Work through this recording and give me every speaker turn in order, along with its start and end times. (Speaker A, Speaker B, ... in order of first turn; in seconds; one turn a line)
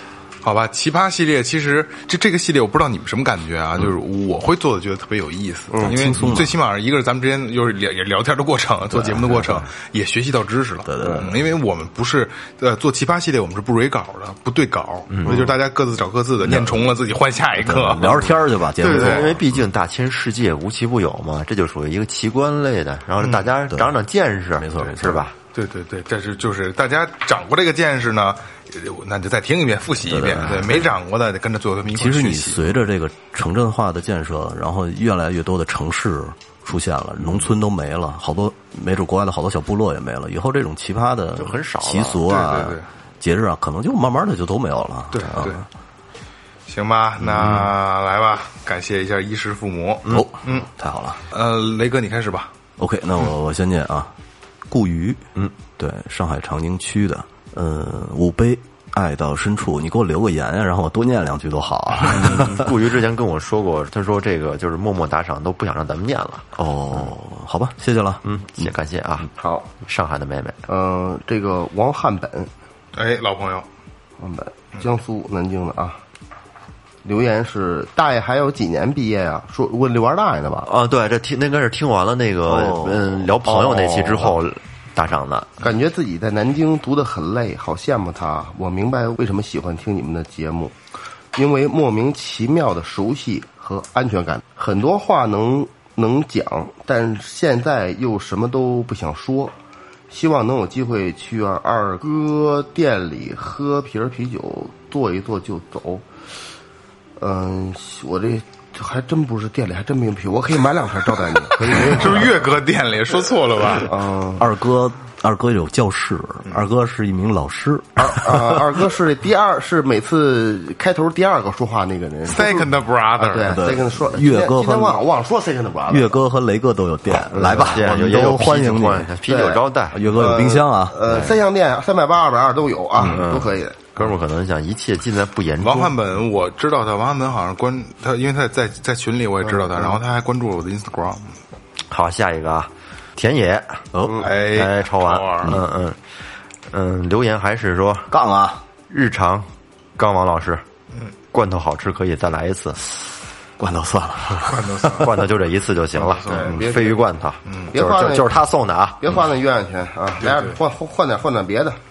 Speaker A: 0.4-19.4
Speaker B: 5.7-6.4
Speaker C: 5.8-6.6
Speaker C: 8.9-9.7
Speaker C: 10.8-11.3
Speaker B: 11.0-11.3
Speaker D: 15.1-15.5
Speaker C: 16.4-16.9
Speaker C: 17.6-19.4
Speaker D: 18.0-18.3
Speaker D: 18.8-25.4
Speaker A: 23.2-23.5
Speaker C: 23.7-23.9
Speaker C: 24.6-25.3
Speaker A: 25.5-32.6
Speaker C: 30.1-30.9
Speaker D: 30.4-30.7
Speaker C: 31.9-45.7
Speaker D: 41.4-42.2
Speaker A: 42.3-42.9
Speaker A: 45.1-45.6
Speaker A: 46.7-50.7
Speaker C: 50.0-51.2
Speaker A: 51.3-52.5
Speaker C: 52.8-54.1
Speaker C: 54.7-55.2
Speaker C: 55.8-62.7
Speaker D: 62.1-67.1
Speaker C: 66.5-68.7
Speaker D: 68.2-69.3
Speaker B: 69.4-69.7
Speaker D: 69.8-70.6
Speaker B: 70.7-72.5
Speaker A: 72.9-73.7
Speaker B: 74.2-76.0
Speaker B: 77.0-80.7
Speaker D: 80.6-85.5
Speaker C: 82.5-84.3
Speaker B: 83.5-84.3
Speaker B: 85.6-90.7
Speaker B: 91.3-99.5
Speaker B: 100.1-106.0
Speaker B: 107.2-112.5
Speaker A: 111.6-114.0
Speaker B: 113.8-114.5
Speaker C: 114.4-118.8
Speaker B: 118.0-126.2
Speaker A: 122.3-123.6
Speaker C: 123.5-125.0
Speaker C: 125.9-129.1
Speaker D: 127.1-130.0
Speaker B: 129.2-133.9
Speaker C: 129.9-131.2
Speaker D: 131.1-131.4
Speaker D: 133.0-135.9
Speaker A: 135.6-141.4
Speaker B: 139.7-140.0
Speaker D: 141.9-146.0
Speaker C: 143.9-144.3
Speaker A: 144.2-145.6
Speaker D: 146.7-148.1
Speaker C: 148.1-148.6
Speaker D: 148.9-150.6
Speaker D: 151.3-152.8
Speaker C: 153.6-155.1
Speaker A: 154.4-155.2
Speaker D: 154.9-159.1
Speaker A: 155.9-156.6
Speaker B: 156.3-157.1
Speaker A: 157.4-157.7
Speaker B: 157.7-158.3
Speaker B: 159.0-161.8
Speaker A: 160.2-160.6